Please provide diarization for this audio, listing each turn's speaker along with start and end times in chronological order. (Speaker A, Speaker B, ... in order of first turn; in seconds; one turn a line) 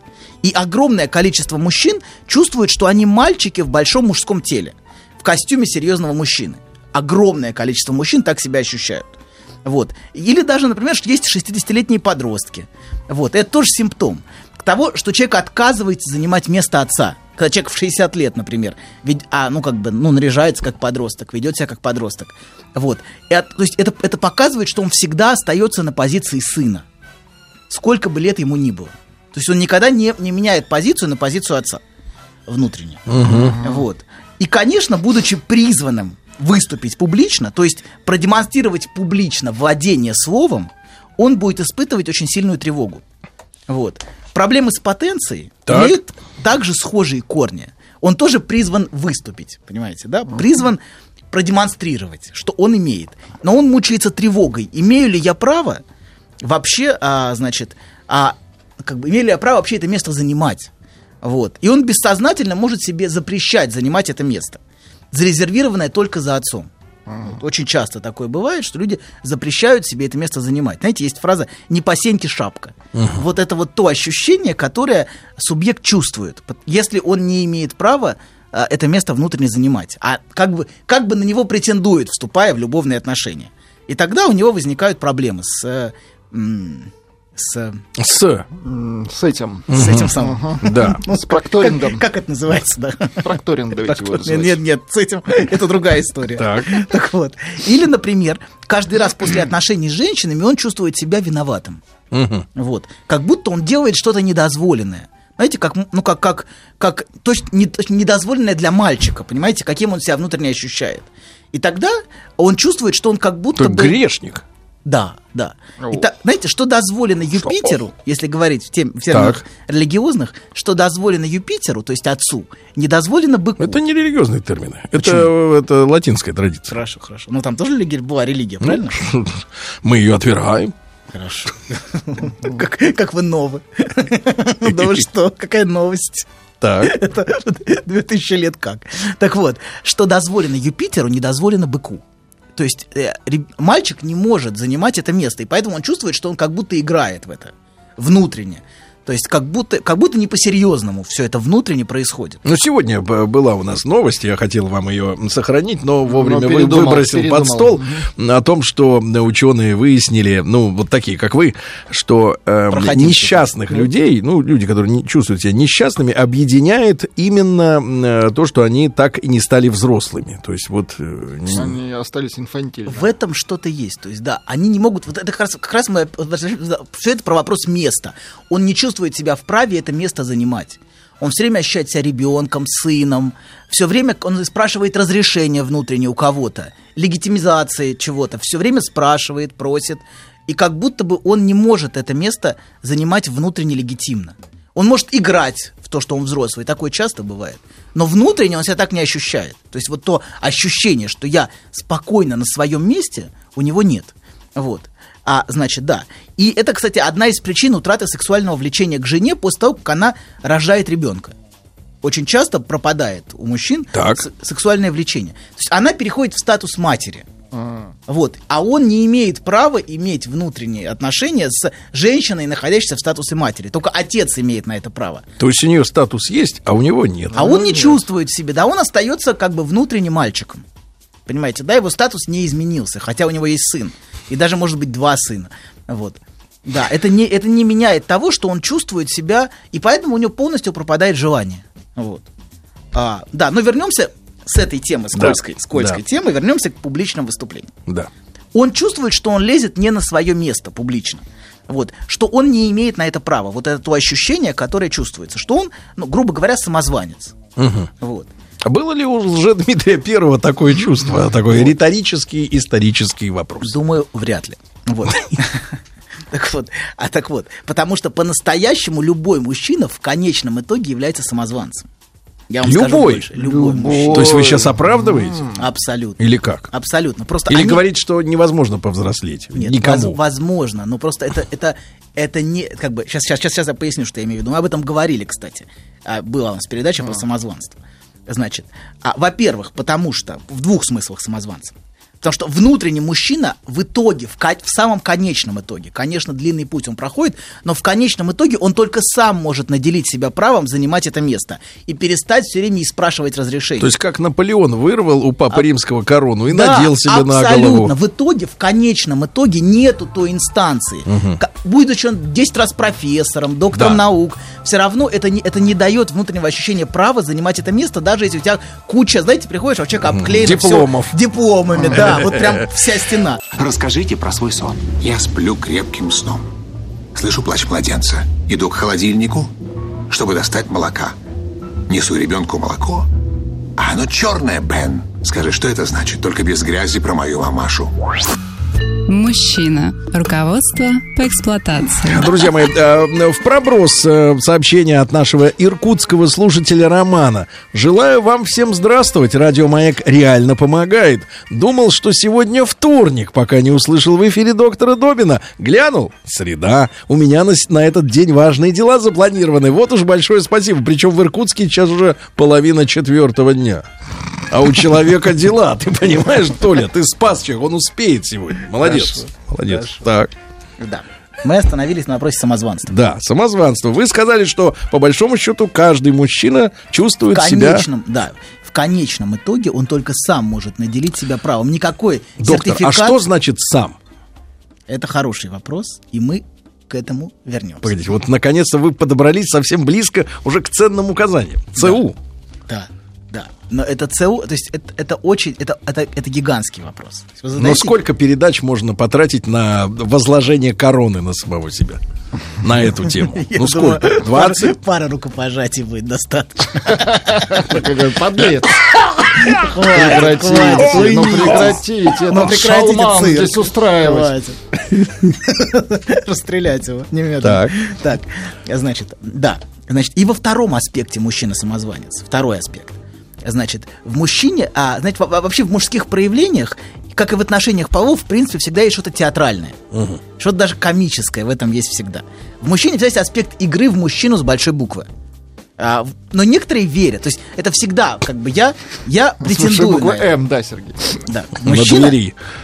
Speaker A: 0.4-9.0
Speaker A: 9.6-26.8
Speaker A: 27.7-31.8
Speaker A: 32.5-43.0
Speaker B: 33.1-33.6
Speaker C: 33.4-33.8
Speaker A: 43.7-55.8
Speaker B: 45.7-46.0
Speaker A: 56.4-60.7
Speaker A: 61.2-64.6
Speaker A: 65.1-66.7
Speaker A: 67.2-87.8
Speaker B: 72.9-73.2
Speaker B: 88.0-88.5
Speaker C: 88.5-92.0
Speaker B: 89.7-91.0
Speaker A: 89.7-93.2
Speaker C: 93.2-94.6
Speaker A: 93.8-101.8
Speaker B: 96.4-96.8
Speaker B: 102.1-102.5
Speaker A: 102.5-114.0
Speaker B: 113.5-114.4
Speaker A: 114.8-123.8
Speaker C: 115.8-116.0
Speaker B: 119.1-119.4
Speaker B: 123.6-126.7
Speaker A: 125.0-125.3
Speaker A: 126.7-129.0
Speaker B: 128.6-130.7
Speaker A: 131.1-136.2
Speaker B: 136.6-137.0
Speaker A: 136.8-142.0
Speaker A: 142.6-152.4
Speaker B: 152.4-171.8
Speaker C: 156.1-158.1
Speaker A: 162.7-163.6
Speaker C: 171.5-173.1
Speaker A: 172.9-211.3
Speaker A: 212.0-217.3
Speaker B: 213.9-214.2
Speaker C: 217.5-217.9
Speaker A: 218.1-225.2
Speaker B: 225.4-227.5
Speaker A: 227.3-230.6
Speaker C: 227.3-228.0
Speaker A: 231.3-242.2
Speaker A: 242.9-247.7
Speaker B: 245.1-246.0
Speaker A: 248.5-257.4
Speaker B: 257.6-257.9
Speaker A: 258.0-258.3
Speaker B: 258.6-263.8
Speaker A: 263.6-265.7
Speaker A: 266.3-271.9
Speaker A: 272.5-274.5
Speaker B: 272.6-273.3
Speaker C: 273.4-275.5
Speaker B: 274.1-275.5
Speaker A: 275.6-277.8
Speaker B: 276.2-276.7
Speaker B: 277.5-280.2
Speaker A: 279.5-287.8
Speaker A: 288.3-303.9
Speaker B: 303.8-307.9
Speaker A: 306.5-323.4
Speaker B: 311.1-311.4
Speaker B: 313.7-314.0
Speaker B: 320.0-321.2
Speaker B: 321.9-322.6
Speaker D: 324.8-326.5
Speaker D: 327.1-329.5
Speaker D: 330.1-331.2
Speaker D: 331.9-333.1
Speaker D: 333.8-337.9
Speaker E: 339.1-342.3
Speaker B: 342.1-363.8
Speaker B: 364.5-370.3
Speaker A: 368.8-370.0
Speaker A: 370.8-372.9
Speaker B: 372.9-377.9
Speaker A: 377.3-383.2
Speaker B: 382.4-384.0
Speaker A: 384.9-387.9
Speaker B: 387.8-392.2
Speaker A: 391.8-392.0
Speaker A: 392.7-398.0
Speaker B: 397.6-402.0
Speaker B: 402.6-404.8
Speaker A: 403.3-407.8
Speaker C: 407.3-414.3
Speaker A: 409.4-429.8
Speaker B: 411.1-411.4
Speaker B: 417.4-417.8
Speaker B: 429.9-430.2
Speaker A: 430.4-435.1
Speaker A: 435.8-440.3
Speaker C: 439.4-441.2
Speaker A: 441.3-442.2
Speaker B: 441.6-442.4